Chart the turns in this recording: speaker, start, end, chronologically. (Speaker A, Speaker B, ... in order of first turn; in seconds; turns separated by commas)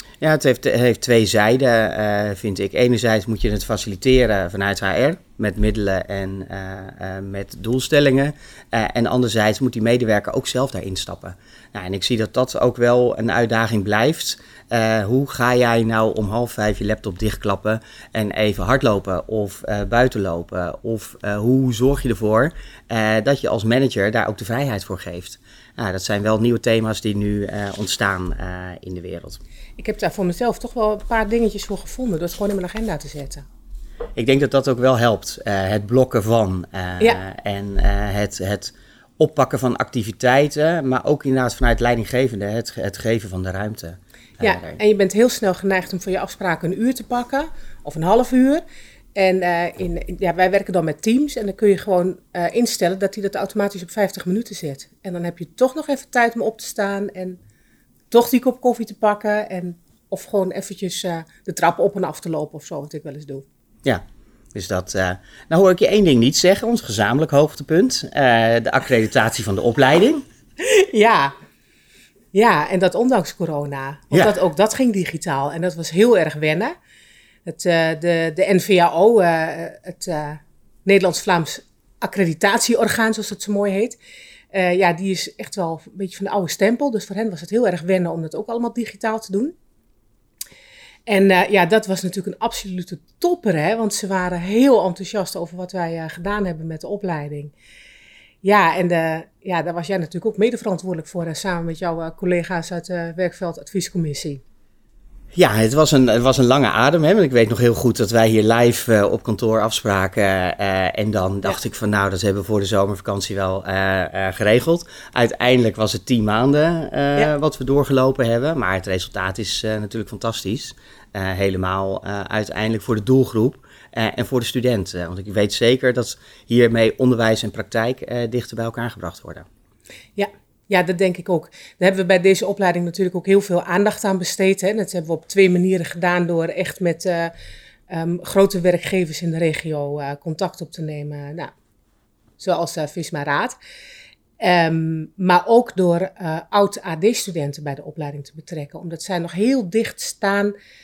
Speaker A: 0.2-29.4, Speaker B: 29.8-33.5, Speaker A: 34.2-44.8, Speaker B: 44.4-48.6, Speaker B: 49.1-57.4, Speaker B: 58.1-63.4, Speaker A: 64.5-70.2, Speaker B: 70.6-71.3, Speaker B: 72.3-76.7, Speaker B: 77.5-84.0, Speaker B: 84.5-89.5, Speaker B: 91.1-97.5, Speaker B: 98.4-104.4, Speaker A: 105.3-129.5, Speaker B: 130.2-137.3, Speaker B: 137.9-141.5, Speaker B: 142.4-143.6, Speaker B: 144.4-150.5